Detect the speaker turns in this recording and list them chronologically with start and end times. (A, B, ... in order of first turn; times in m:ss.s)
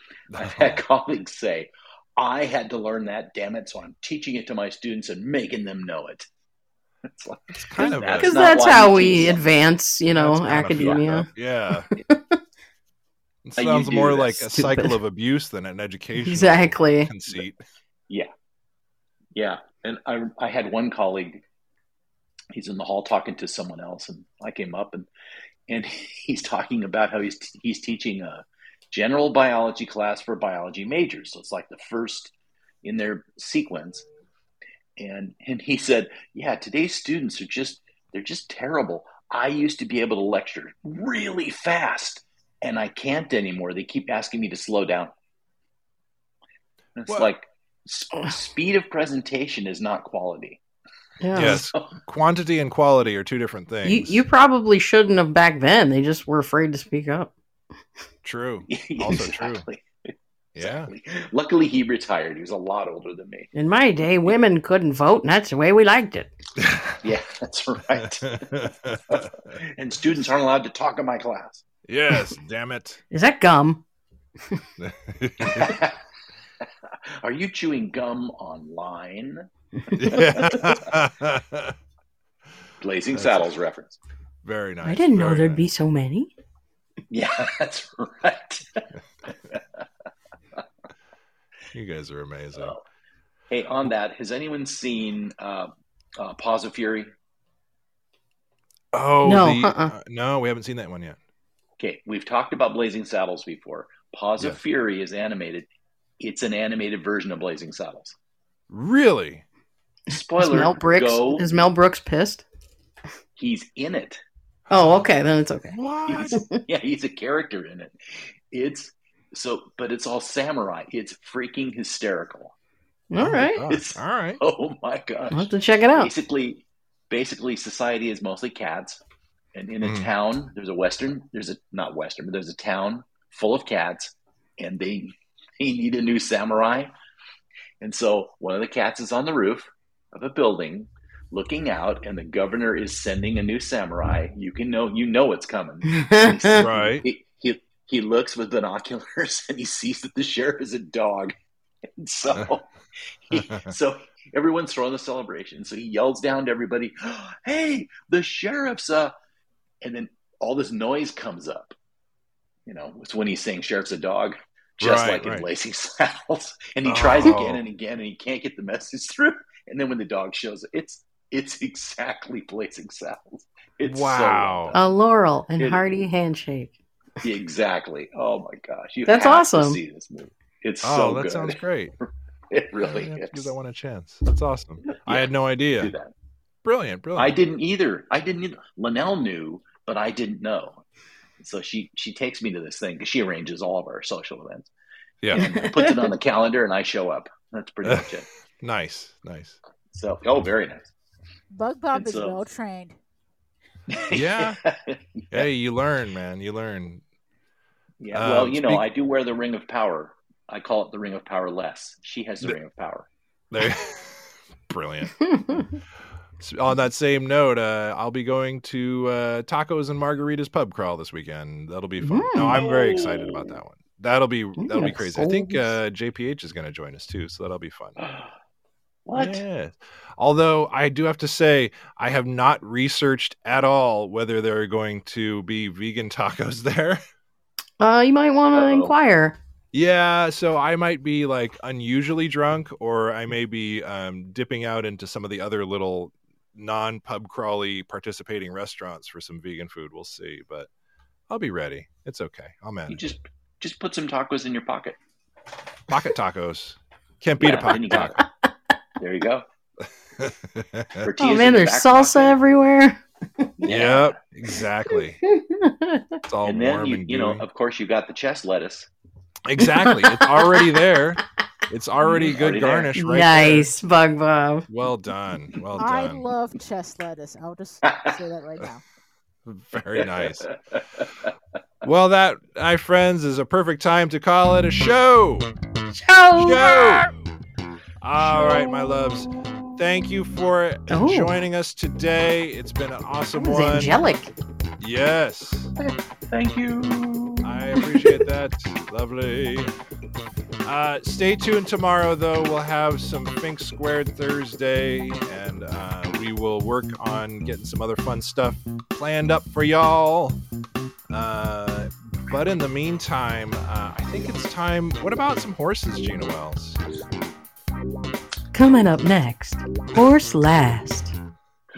0:00.3-0:00.8 A
0:00.4-0:06.3 B
0:07.0-0:09.5 B
0:07.6-0:09.3 A
0:08.2-0:11.3 C
0:10.1-0:11.9 A
0:10.7-0:11.2 B
0:11.9-0:12.4 C
0:13.4-0:17.6 A
0:13.6-0:14.5 B
0:14.5-0:15.0 C
0:16.2-0:17.1 C
0:19.3-0:21.4 B
0:22.5-0:25.1 B
0:25.7-0:34.0 B
0:35.0-0:45.1 B
0:47.0-0:50.6 B
0:51.2-0:51.6 C
0:51.3-0:51.9 B
0:51.3-0:54.2 A
0:53.8-0:57.3 C
0:58.2-0:59.6 A
0:58.7-1:03.5 B
1:00.6-1:00.9 A
1:03.5-1:06.3 C
1:06.6-1:07.0 A
1:07.0-1:11.6 B
1:08.2-1:09.3 A
1:11.9-1:13.0 A
1:13.1-1:13.8 C
1:14.8-1:15.8 A
1:15.4-1:16.0 B
1:16.6-1:19.5 B
1:19.9-1:20.5 C
1:20.0-1:21.7 A
1:20.0-1:21.0 B
1:22.8-1:24.0 B
1:23.1-1:23.5 A
1:24.4-1:25.6 A
1:24.8-1:26.3 C
1:27.1-1:28.8 B
1:29.5-1:29.8 B
1:31.7-1:32.8 A
1:32.5-1:32.8 B
1:33.5-1:37.1 B
1:38.9-1:41.2 A
1:39.2-1:39.9 C
1:41.8-1:45.7 B
1:46.2-1:48.2 B
1:48.7-1:49.4 A
1:50.1-1:51.6 B
1:50.1-1:52.4 C
1:53.4-1:54.2 B
1:54.7-1:55.0 A
1:54.7-1:55.8 C
1:55.7-1:56.4 A
1:56.1-2:02.5 B
1:56.3-1:56.6 C
2:03.1-2:03.6 C
2:03.2-2:04.4 A
2:03.6-2:09.0 B
2:05.3-2:06.1 C
2:09.5-2:16.9 B
2:09.8-2:10.1 A
2:17.8-2:31.3 B
2:25.9-2:26.6 C
2:26.5-2:27.0 A
2:32.0-2:32.7 B
2:33.3-2:39.1 B
2:33.3-2:33.7 A
2:39.8-2:41.8 B
2:42.6-2:54.9 B
2:44.8-2:45.5 A
2:46.8-2:47.6 A
2:53.8-2:54.8 A
2:54.7-2:56.8 C
2:55.6-2:55.8 B
2:57.2-3:03.5 B
2:59.1-2:59.8 C
3:00.8-3:01.9 A
3:02.8-3:05.9 A
3:04.9-3:06.1 B
3:06.6-3:07.4 A
3:07.2-3:10.8 B
3:11.4-3:14.7 B
3:15.2-3:15.5 A
3:15.3-3:18.2 B
3:15.4-3:16.1 C
3:17.8-3:19.6 A
3:19.9-3:20.9 B
3:21.5-3:23.0 D
3:21.9-3:22.4 B
3:23.9-3:25.4 B
3:24.1-3:24.6 A
3:25.3-3:27.0 A
3:28.0-3:33.1 B
3:28.1-3:28.8 A
3:33.5-3:35.7 A
3:35.2-3:35.7 C
3:36.4-3:48.0 A
3:42.0-3:42.6 C
3:42.4-3:43.5 B
3:44.6-3:45.8 C
3:48.0-3:48.3 B
3:49.0-3:49.4 B
3:49.1-3:57.0 A
3:57.8-3:59.4 C
3:58.5-3:58.9 B
3:59.7-4:10.7 A
4:11.3-4:13.0 A
4:12.9-4:15.0 B
4:15.9-4:18.2 A
4:17.4-4:18.2 B
4:19.0-4:19.4 B
4:20.2-4:21.1 A
4:21.0-4:22.4 B
4:21.2-4:23.5 C
4:23.6-4:24.2 B
4:23.6-4:25.2 A
4:25.2-4:26.2 C
4:26.2-4:27.4 A
4:26.4-4:28.9 B
4:29.4-4:33.7 A
4:29.6-4:30.8 C
4:32.0-4:32.9 B
4:32.9-4:34.6 C
4:34.7-4:36.2 A
4:35.8-4:38.8 D
4:37.8-4:38.1 B
4:39.4-4:40.5 A
4:39.9-4:41.3 B
4:41.8-4:45.5 A
4:45.9-4:47.1 C
4:46.4-4:47.1 A
4:48.0-4:54.0 A
4:50.9-4:51.3 C
4:53.3-4:54.3 C
4:54.8-4:55.7 A
4:55.8-4:57.6 B
4:57.4-4:59.7 A
5:00.6-5:10.4 A
5:11.1-5:16.8 A
5:18.5-5:21.1 C